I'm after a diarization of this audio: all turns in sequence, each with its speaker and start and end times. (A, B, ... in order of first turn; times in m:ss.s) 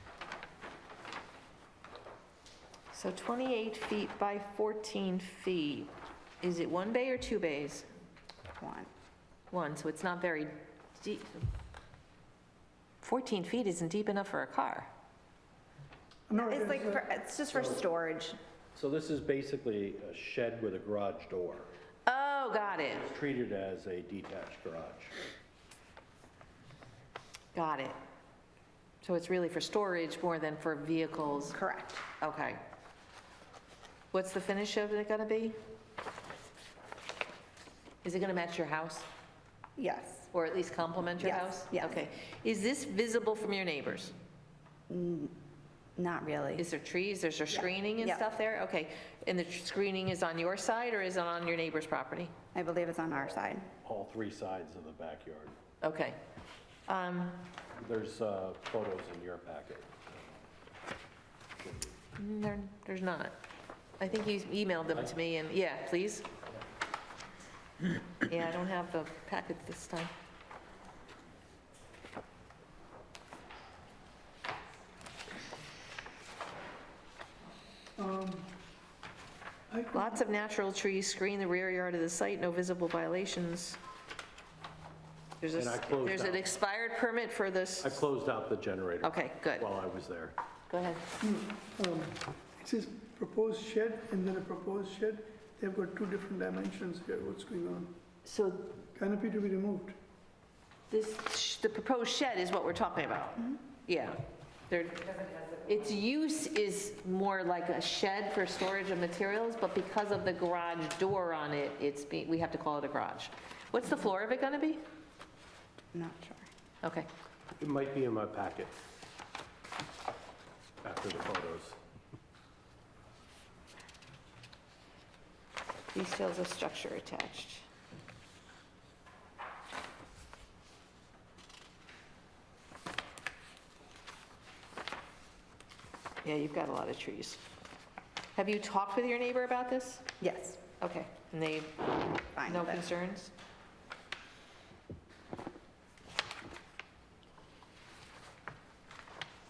0:02.9-0:07.9 A
0:08.6-0:08.9 B
0:09.5-0:11.4 A
0:13.0-0:14.9 A
0:16.3-0:17.0 C
0:16.4-0:18.4 B
0:18.7-0:21.7 D
0:22.1-0:23.0 A
0:23.0-0:25.1 D
0:27.5-0:28.0 A
0:29.0-0:31.6 A
0:31.5-0:32.0 B
0:32.2-0:32.6 A
0:34.1-0:35.6 A
0:38.0-0:39.1 A
0:39.8-0:40.3 B
0:40.3-0:44.1 A
0:41.2-0:42.0 B
0:44.9-0:45.3 B
0:46.0-0:46.6 B
0:46.6-0:52.3 A
0:47.5-0:48.2 B
0:52.5-0:53.7 B
0:53.8-0:55.6 D
0:55.8-0:56.2 A
0:56.9-0:57.5 A
0:57.8-1:00.0 D
1:01.6-1:02.0 D
1:02.2-1:03.3 A
1:04.0-1:06.3 A
1:08.2-1:10.1 A
1:18.0-1:18.5 C
1:19.7-1:20.2 C
1:19.9-1:23.8 A
1:25.4-1:28.1 A
1:25.6-1:26.4 D
1:27.8-1:30.3 D
1:29.0-1:29.7 A
1:30.7-1:31.0 A
1:31.2-1:37.9 C
1:38.2-1:38.7 A
1:38.9-1:40.0 C
1:40.9-1:44.2 A
1:44.7-1:54.8 A
1:55.9-1:56.5 B
1:57.6-1:58.7 D
2:00.8-2:01.8 D
2:05.9-2:07.6 A
2:16.2-2:17.4 A
2:18.3-2:20.0 A
2:20.2-2:20.6 B
2:20.8-2:23.3 A
2:22.4-2:22.8 B